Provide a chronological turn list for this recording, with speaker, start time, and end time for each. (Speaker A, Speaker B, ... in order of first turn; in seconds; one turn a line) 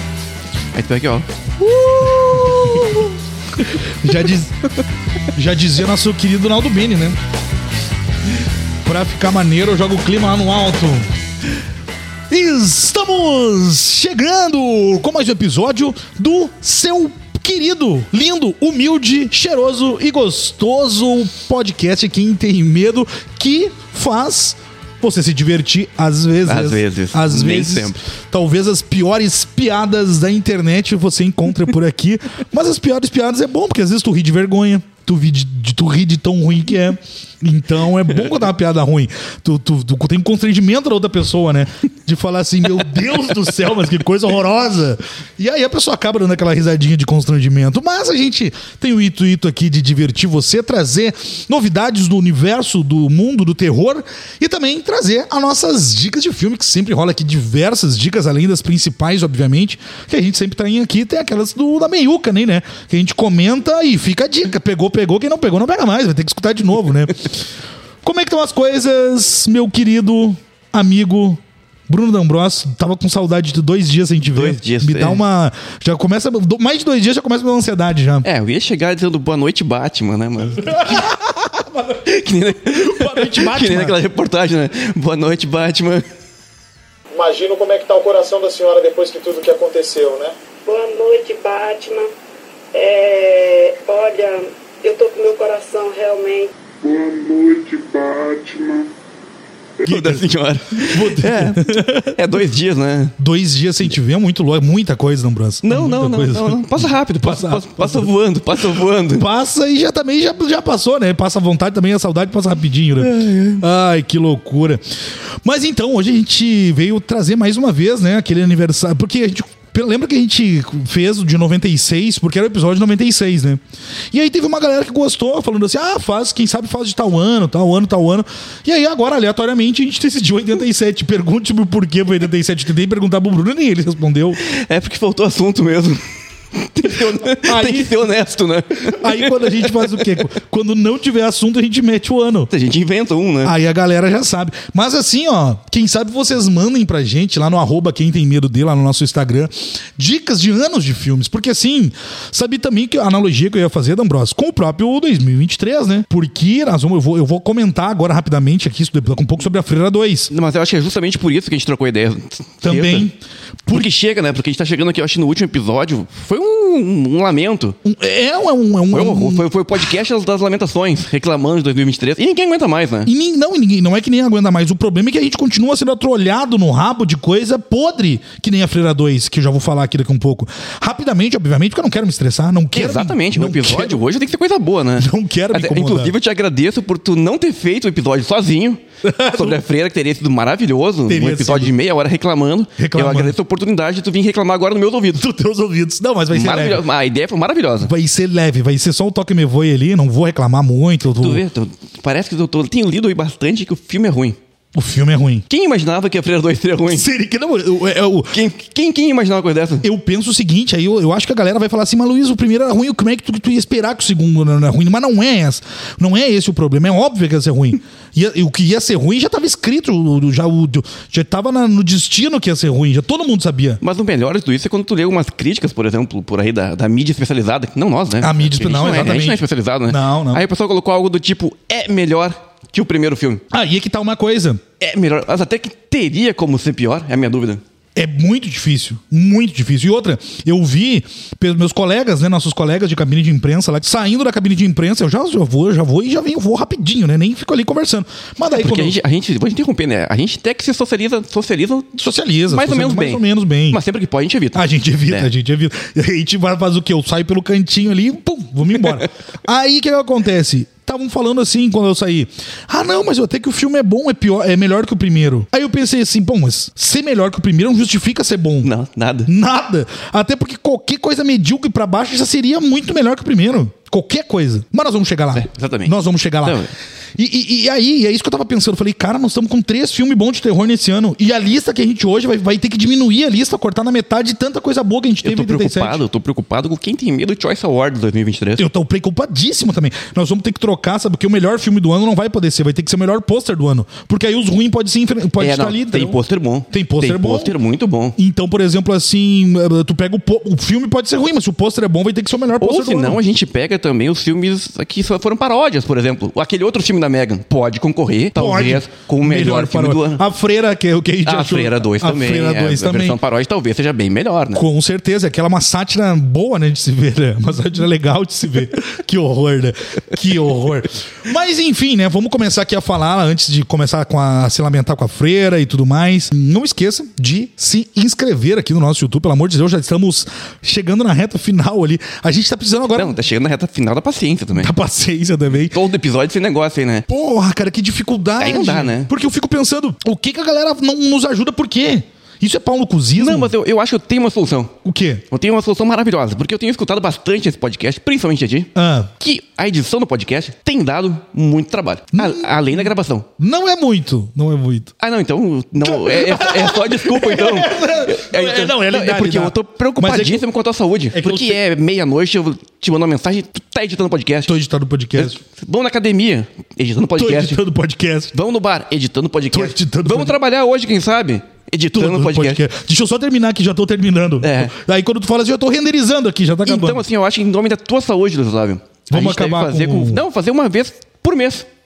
Speaker A: 0.7-3.1
Speaker B: 2.3-2.8
Speaker B: 3.8-4.6
Speaker B: 5.3-7.2
Speaker B: 8.8-11.1
Speaker B: 12.3-67.3
Speaker A: 26.4-28.0
Speaker B: 68.0-78.2
Speaker A: 74.3-75.2
Speaker A: 78.2-81.0
Speaker B: 80.5-82.1
Speaker A: 82.0-86.0
Speaker B: 82.6-84.0
Speaker C: 87.1-90.3
Speaker D: 90.6-92.1
Speaker D: 92.7-96.5
Speaker E: 96.8-98.9
Speaker B: 99.8-102.2
Speaker A: 99.9-103.2
Speaker B: 103.2-108.1
Speaker A: 105.6-109.2
Speaker B: 109.1-114.8
Speaker A: 113.0-113.6
Speaker B: 115.4-123.6
Speaker B: 124.1-134.4
Speaker A: 134.4-136.0
Speaker A: 136.5-140.1
Speaker B: 137.3-138.0
Speaker B: 138.8-142.5
Speaker A: 142.5-143.5
Speaker B: 143.4-160.3
Speaker A: 160.3-163.1
Speaker B: 162.6-163.9
Speaker A: 163.7-167.8
Speaker B: 167.8-169.4
Speaker A: 168.9-173.1
Speaker B: 173.0-184.0
Speaker A: 182.7-195.2
Speaker B: 185.0-186.2
Speaker B: 189.0-189.6
Speaker B: 191.1-191.7
Speaker B: 192.8-193.3
Speaker B: 195.2-196.8
Speaker A: 196.3-197.9
Speaker B: 197.8-201.4
Speaker A: 201.2-204.4
Speaker B: 204.7-205.4
Speaker A: 205.5-207.1
Speaker B: 206.9-208.4
Speaker A: 208.3-209.8
Speaker B: 209.8-223.8
Speaker A: 223.8-233.4
Speaker B: 228.2-230.4
Speaker B: 233.5-234.6
Speaker A: 234.8-237.6
Speaker B: 237.9-249.0
Speaker A: 248.5-251.9
Speaker B: 251.9-253.8
Speaker A: 252.5-255.3
Speaker B: 254.5-268.7
Speaker A: 268.6-269.3
Speaker B: 269.2-276.6
Speaker A: 275.3-276.7
Speaker B: 277.2-286.0
Speaker A: 285.2-288.6
Speaker B: 288.6-296.2
Speaker A: 295.4-298.1
Speaker B: 296.7-297.5
Speaker B: 298.1-303.2
Speaker A: 302.6-310.2
Speaker B: 308.3-313.2
Speaker A: 311.2-314.6
Speaker B: 314.5-333.1
Speaker A: 332.9-334.7
Speaker B: 334.5-335.8
Speaker A: 335.7-337.1
Speaker B: 337.1-343.5
Speaker A: 338.4-339.1
Speaker A: 343.2-344.7
Speaker B: 344.8-345.2
Speaker A: 345.3-353.3
Speaker B: 348.7-349.1
Speaker B: 352.1-354.9
Speaker A: 355.0-364.5
Speaker B: 355.8-360.4
Speaker B: 361.1-361.6
Speaker B: 364.4-365.4
Speaker A: 365.1-367.6
Speaker B: 367.1-368.3
Speaker A: 368.3-372.6
Speaker B: 369.5-370.4
Speaker B: 371.9-377.0
Speaker A: 374.4-374.7
Speaker A: 376.6-381.7
Speaker B: 379.1-380.2